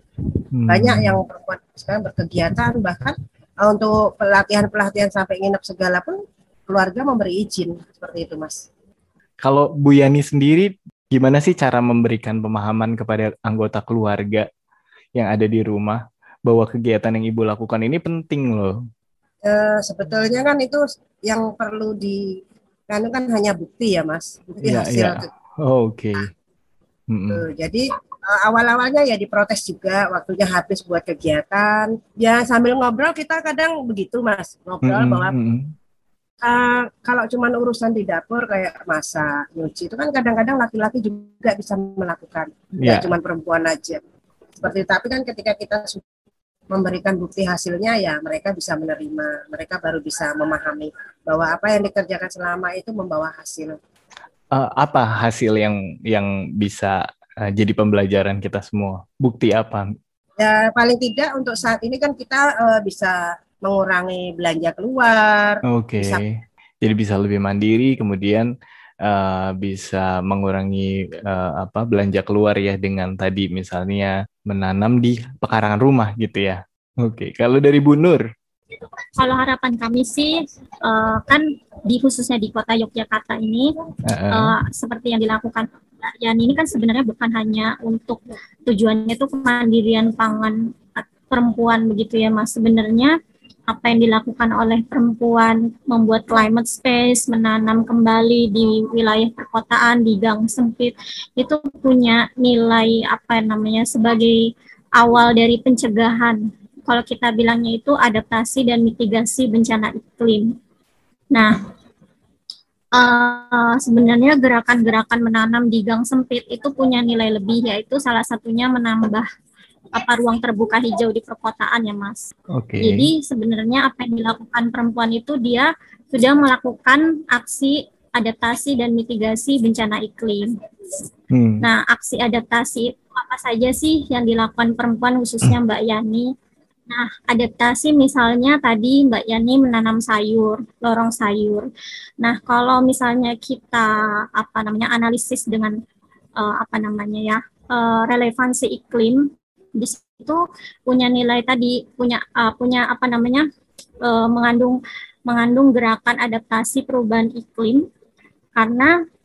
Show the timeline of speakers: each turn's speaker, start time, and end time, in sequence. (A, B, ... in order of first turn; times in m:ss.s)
0:00.6-0:01.2 A
0:00.7-0:08.7 B
0:09.4-0:14.5 A
0:15.2-0:18.8 A
0:19.4-0:25.2 B
0:24.6-0:26.3 A
0:27.1-0:27.4 A
0:27.3-0:35.3 B
0:34.8-0:35.8 A
0:36.4-0:44.0 B
0:42.8-0:43.1 A
0:44.6-0:46.0 B
0:46.7-0:53.8 B
0:54.5-0:59.9 A
1:00.4-1:06.2 B
1:05.7-1:08.5 A
1:09.0-1:18.2 A
1:19.2-1:23.7 C
1:24.0-1:24.6 A
1:24.3-1:33.2 C
1:33.7-1:44.5 C
1:45.0-1:50.5 C
1:51.3-1:51.6 C
1:52.9-1:59.3 C
2:00.0-2:10.6 C
2:02.5-2:03.1 A
2:11.3-2:11.7 A
2:11.6-2:16.3 C
2:16.9-2:21.7 C
2:22.2-2:25.8 C
2:26.4-2:33.4 C
2:34.0-2:37.8 C
2:38.6-2:38.9 C